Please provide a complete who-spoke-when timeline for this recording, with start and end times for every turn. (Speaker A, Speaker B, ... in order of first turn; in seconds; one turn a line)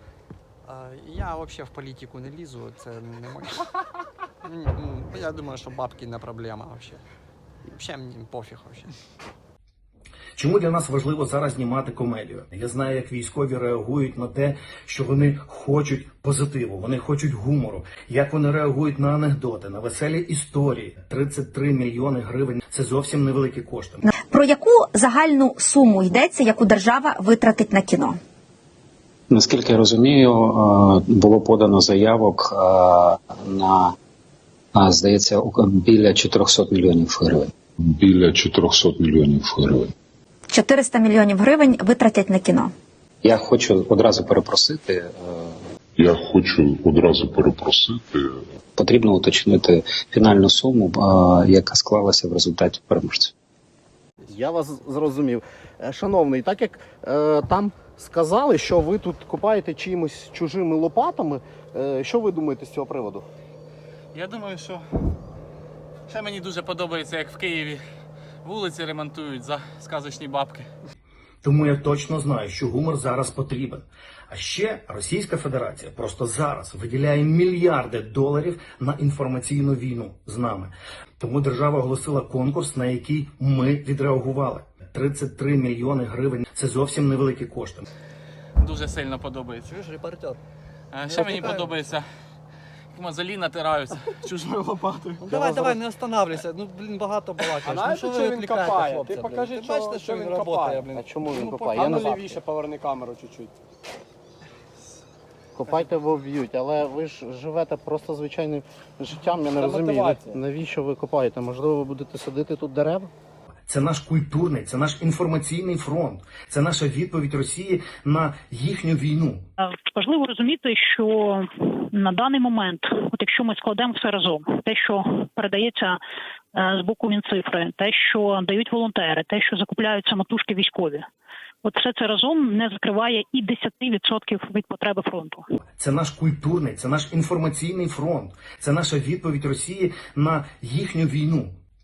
Speaker A: 0.7-3.6
Speaker A: 4.4-7.0
Speaker A: 7.6-8.9
Speaker B: 10.4-24.0
Speaker C: 24.3-28.2
Speaker D: 29.3-33.9
Speaker D: 34.8-37.5
Speaker E: 37.8-39.9
Speaker C: 40.5-42.7
Speaker D: 43.2-45.5
Speaker E: 46.0-48.4
Speaker D: 48.8-53.3
Speaker F: 54.2-63.2
Speaker G: 64.1-64.8
Speaker G: 66.1-67.8
Speaker G: 68.4-70.7
Speaker B: 71.4-87.8
Speaker G: 88.6-89.7
Speaker A: 89.7-90.4
Speaker G: 90.9-92.0
Speaker A: 91.3-91.7
Speaker G: 92.9-94.7
Speaker A: 95.2-102.1
Speaker F: 95.3-95.8
Speaker H: 97.7-100.7
Speaker F: 100.9-102.4
Speaker H: 101.8-103.5
Speaker F: 105.6-113.1
Speaker H: 109.6-110.3
Speaker B: 113.7-119.4
Speaker I: 119.6-126.0
Speaker I: 126.5-131.1
Speaker I: 131.6-135.4
Speaker B: 135.8-141.5